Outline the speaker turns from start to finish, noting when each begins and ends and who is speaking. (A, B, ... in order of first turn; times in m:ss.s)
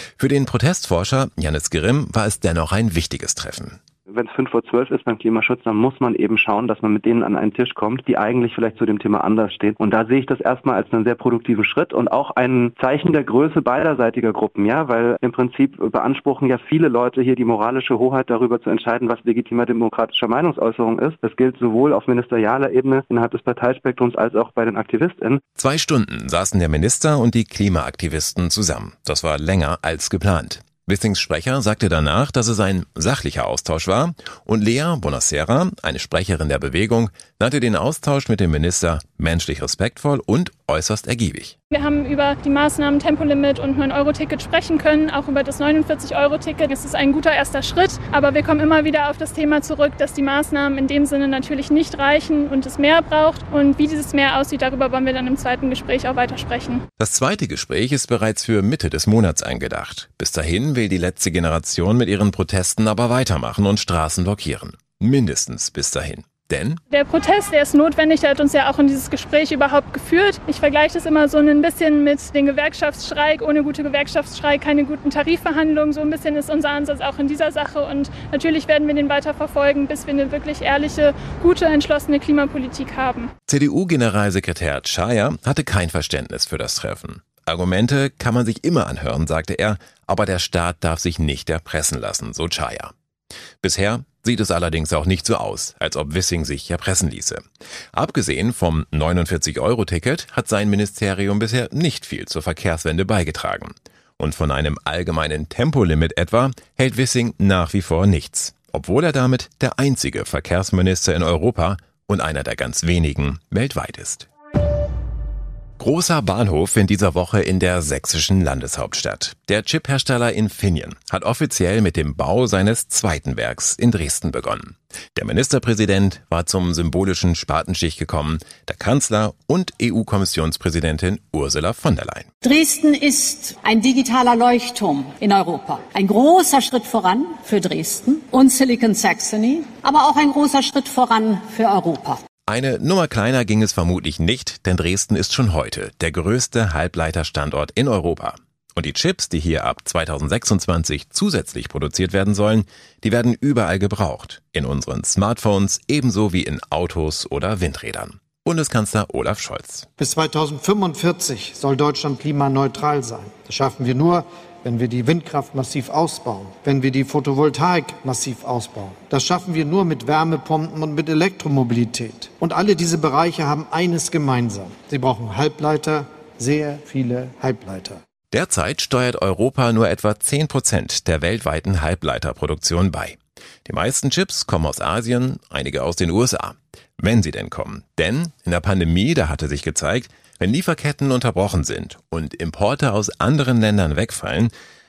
0:00.2-0:03.8 A
0:04.1-0:25.4 B
0:25.6-0:41.6 A
0:41.7-0:56.8 C
0:57.0-1:06.8 A
1:06.9-1:23.3 C
1:23.5-1:32.9 A
1:33.6-1:37.4 A
1:38.0-1:54.3 A
1:55.8-2:12.2 A
2:12.4-2:22.2 D
2:22.5-2:39.8 A
2:40.0-2:58.0 E
2:58.3-3:03.2 A
3:03.7-3:06.3 A
3:07.0-3:14.5 A